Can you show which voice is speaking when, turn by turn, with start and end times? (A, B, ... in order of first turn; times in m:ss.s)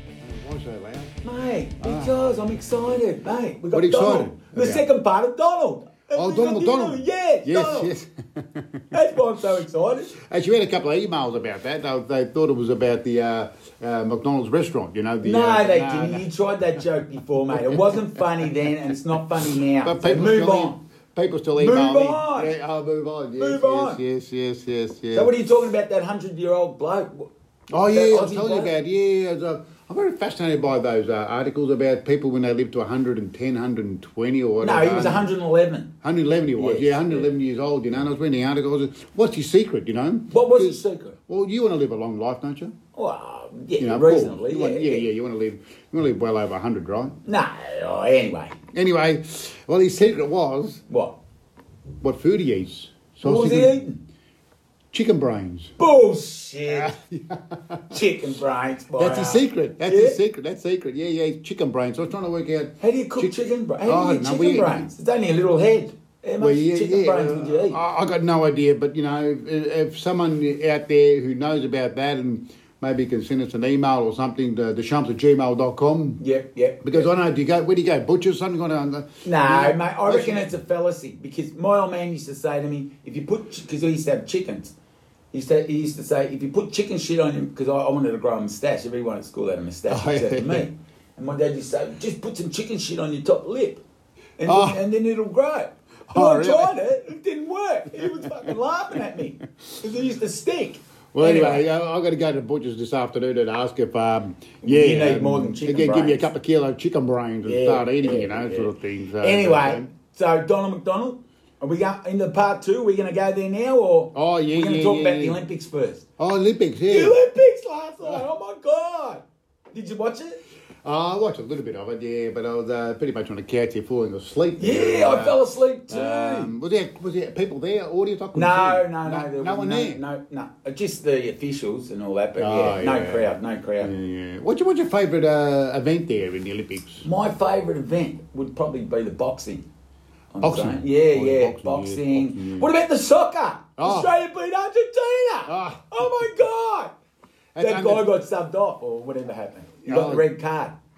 0:00.2-0:01.2 A
0:01.2-0:07.9 B
0:01.8-0:02.2 A
0:03.7-0:04.8 A
0:06.2-0:09.6 A
0:08.9-0:10.2 B
0:10.2-0:16.2 A
0:15.2-0:20.8 B
0:17.6-0:18.2 A
0:19.8-0:25.3 A
0:21.6-0:22.5 B
0:23.4-0:24.0 B
0:25.1-0:27.3 B
0:27.7-0:35.3 A
0:27.9-0:28.7 B
0:34.6-0:35.9 B
0:36.0-0:42.8 A
0:36.6-0:37.3 B
0:40.3-0:41.2 B
0:43.0-0:45.0 B
0:43.8-0:47.2 A
0:47.3-0:48.6 B
0:48.7-0:50.8 A
0:50.9-0:51.2 B
0:52.0-0:53.8 A
0:53.2-0:54.0 B
0:54.9-0:55.7 A
0:55.8-0:56.9 B
0:56.6-0:58.0 A
0:57.9-1:00.2 B
0:59.0-1:03.3 A
1:02.8-1:07.8 B
1:03.8-1:04.9 A
1:06.4-1:16.2 A
1:16.2-1:17.1 B
1:16.8-1:20.5 A
1:19.2-1:24.7 B
1:25.3-1:33.8 B
1:29.9-1:30.7 A
1:34.4-1:41.6 B
1:34.5-1:34.8 A
1:36.1-1:36.8 A
1:41.1-1:49.9 A
1:44.6-1:46.3 B
1:47.5-1:56.0 B
1:54.1-1:55.4 A
1:56.2-1:57.2 A
1:56.9-1:59.2 B
1:59.7-2:00.4 B
2:00.8-2:05.4 A
2:04.6-2:06.5 B
2:05.9-2:10.0 A
2:08.4-2:13.9 B
2:12.4-2:17.0 A
2:17.0-2:19.7 B
2:20.3-2:26.9 B
2:20.4-2:22.7 A
2:23.8-2:24.1 A
2:25.5-2:26.2 A
2:27.6-2:28.0 A
2:27.6-2:30.7 B
2:29.8-2:30.2 A